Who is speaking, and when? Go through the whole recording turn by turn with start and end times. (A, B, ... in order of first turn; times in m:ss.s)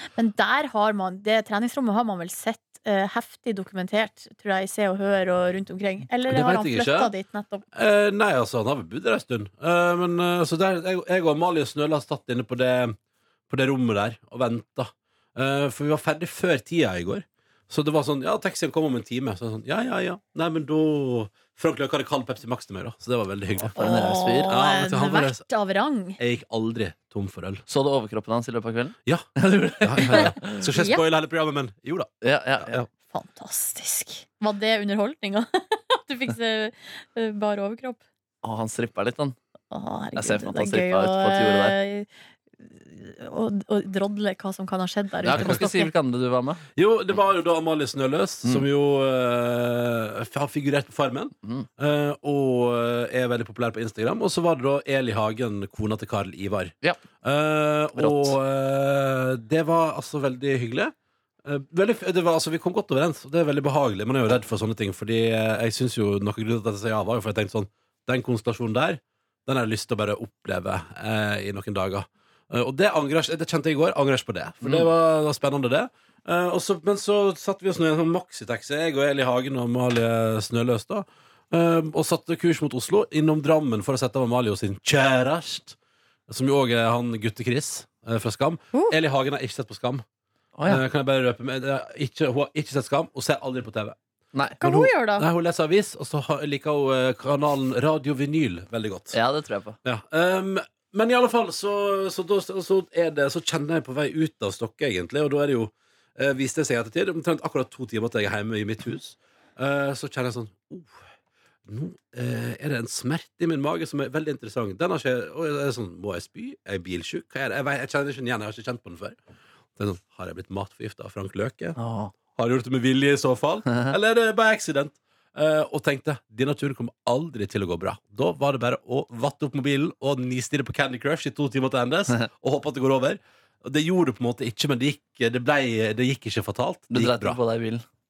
0:00.1-0:07.6 A
0:06.3-0:07.1 B
0:07.7-0:13.0 B
0:13.5-0:25.4 B
0:23.6-0:24.5 C
0:23.8-0:26.2 A
0:26.2-0:27.6 B
0:27.7-0:30.6 C
0:29.0-0:32.9 B
0:30.8-0:31.0 A
0:32.2-0:32.8 C
0:33.1-0:38.0 A
0:38.4-0:39.4 C
0:39.7-0:45.9 A
0:40.2-0:41.8 C
0:45.2-0:46.6 C
0:45.3-0:45.6 B
0:46.8-1:25.8 B
0:58.0-0:58.4 C
1:26.3-1:30.0 B
1:30.6-1:30.8 C
1:30.6-1:34.0 B
1:34.6-1:35.2 A
1:34.6-1:39.2 B
1:39.1-1:39.8 C
1:39.8-1:51.0 B
1:51.7-1:59.2 B
1:59.8-2:01.8 B
2:01.8-2:02.1 C
2:02.3-2:17.4 B
2:03.7-2:03.9 C
2:16.9-2:17.8 C